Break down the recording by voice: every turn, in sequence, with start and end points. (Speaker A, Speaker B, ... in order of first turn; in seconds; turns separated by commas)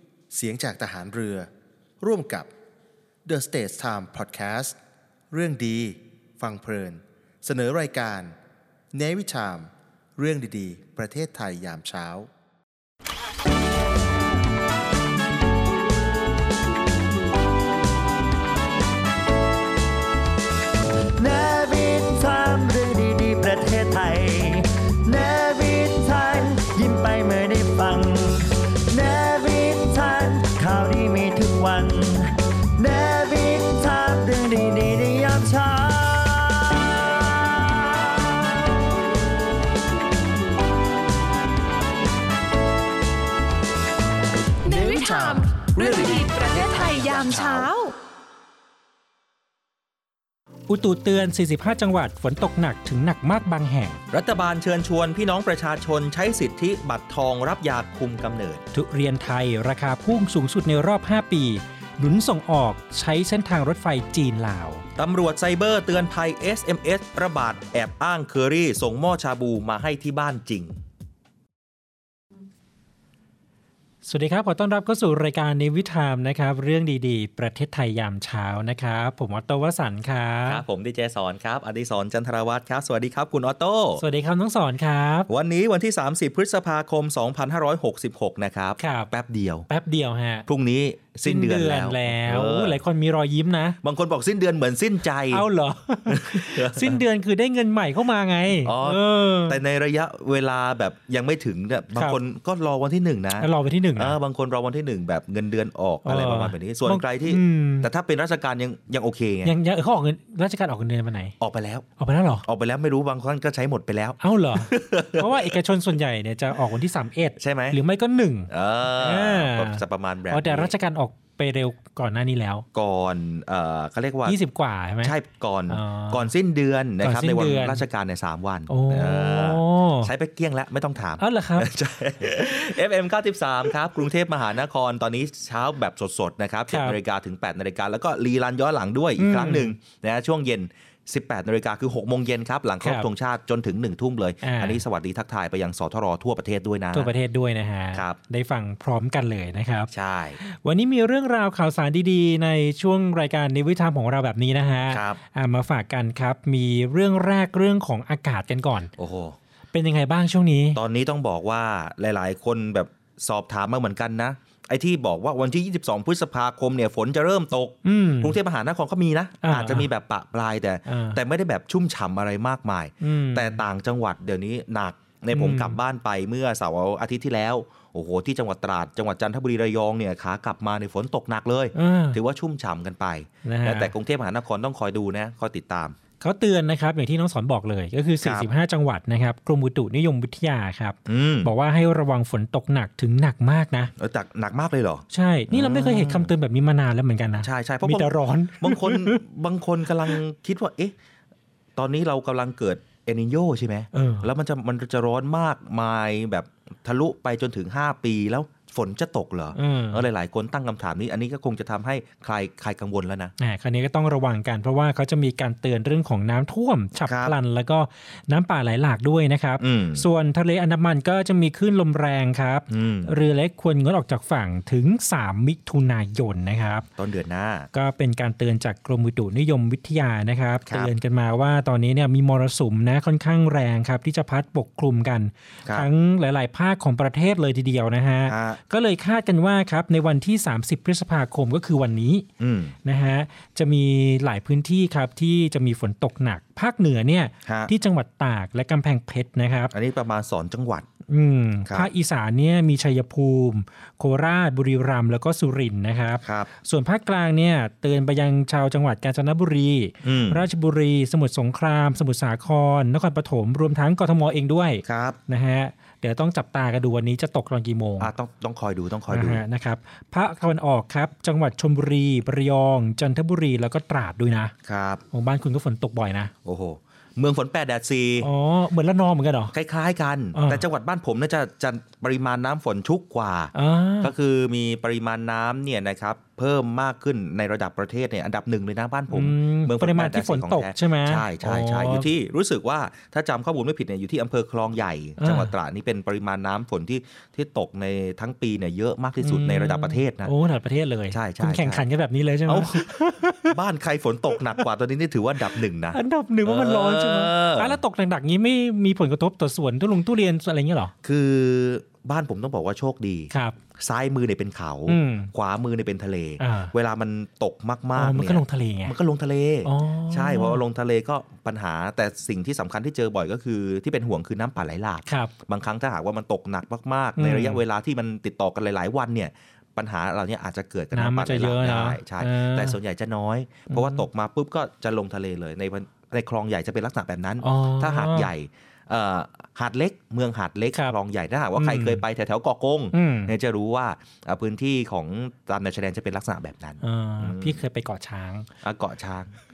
Speaker A: 0.3-1.5, Speaker A: 2.0-2.5, Speaker A: 3.2-4.8, Speaker A: 5.3-8.3, Speaker A: 8.9-12.3, Speaker B: 21.2-38.5, Speaker C: 44.6-47.9, Speaker A: 44.7-47.4, Speaker D: 45.7-47.5, Speaker E: 50.7-54.0, Speaker D: 54.1-58.6, Speaker E: 58.7-64.8, Speaker D: 65.0-70.8, Speaker E: 74.0-80.6, Speaker D: 80.5-84.0, Speaker E: 84.0-85.3, Speaker D: 85.3-89.7, Speaker E: 88.8-89.1, Speaker E: 89.7-90.5, Speaker D: 90.5-92.8, Speaker E: 91.2-93.8, Speaker D: 93.8-95.5, Speaker E: 95.3-99.6, Speaker D: 96.1-97.0, Speaker D: 98.6-109.5, Speaker E: 103.4-104.2, Speaker E: 106.0-107.9, Speaker E: 109.4-111.3, Speaker D: 111.4-111.8, Speaker E: 112.0-112.4, Speaker D: 112.4-115.5, Speaker E: 114.2-122.6, Speaker D: 117.4-117.8, Speaker D: 118.5-120.7, Speaker D: 122.7-124.4, Speaker E: 124.2-125.1, Speaker D: 125.0-147.1, Speaker E: 125.7-126.3, Speaker E: 127.0-127.8, Speaker E: 128.7-130.1, Speaker E: 131.2-131.7, Speaker E: 136.7-137.0, Speaker E: 139.2-139.7, Speaker E: 144.4-144.8, Speaker E: 146.9-158.9, Speaker D: 149.9-150.4, Speaker D: 154.9-155.2, Speaker D: 159.0-159.4, Speaker E: 159.7-160.8, Speaker D: 160.7-185.9, Speaker E: 167.8-168.4, Speaker E: 169.4-169.9, Speaker E: 170.9-171.2, Speaker E: 173.0-173.6, Speaker E: 175.3-175.8, Speaker E: 181.7-182.2, Speaker E: 183.4-183.9, Speaker E: 186.2-193.9, Speaker D: 188.2-188.5, Speaker D: 191.1-191.5, Speaker D: 194.0-196.3, Speaker E: 195.1-199.2, Speaker D: 197.4-200.9, Speaker D: 201.8-213.3, Speaker E: 203.9-204.3, Speaker E: 209.5-210.0, Speaker E: 213.4-226.9, Speaker D: 217.1-217.3, Speaker D: 219.6-220.1, Speaker D: 222.7-223.1, Speaker D: 227.0-227.7, Speaker E: 227.7-242.3, Speaker D: 238.3-238.6, Speaker D: 242.4-242.7, Speaker E: 242.8-249.7, Speaker D: 247.4-247.7, Speaker D: 249.7-250.9, Speaker E: 251.1-268.1, Speaker D: 256.2-256.5, Speaker D: 260.0-260.4, Speaker D: 264.8-265.2, Speaker D: 268.0-269.4, Speaker E: 269.1-274.5, Speaker D: 274.6-275.0, Speaker E: 275.1-276.3, Speaker D: 276.4-278.3, Speaker E: 278.2-279.5, Speaker D: 279.5-300.3, Speaker E: 280.3-280.6, Speaker E: 283.5-284.1, Speaker E: 289.1-292.1, Speaker E: 295.2-295.5, Speaker E: 299.2-303.6, Speaker D: 301.1-301.8, Speaker D: 302.5-307.8, Speaker E: 305.5-310.9, Speaker D: 311.0-347.6, Speaker E: 313.3-313.6, Speaker E: 314.9-315.3, Speaker E: 316.4-316.7, Speaker E: 317.9-318.9, Speaker E: 319.6-320.6, Speaker E: 325.1-325.3, Speaker E: 327.2-327.6, Speaker E: 330.9-332.8, Speaker E: 333.7-334.0, Speaker E: 337.4-338.3, Speaker E: 341.6-342.0, Speaker E: 342.9-343.3, Speaker E: 346.8-348.5, Speaker D: 348.6-349.3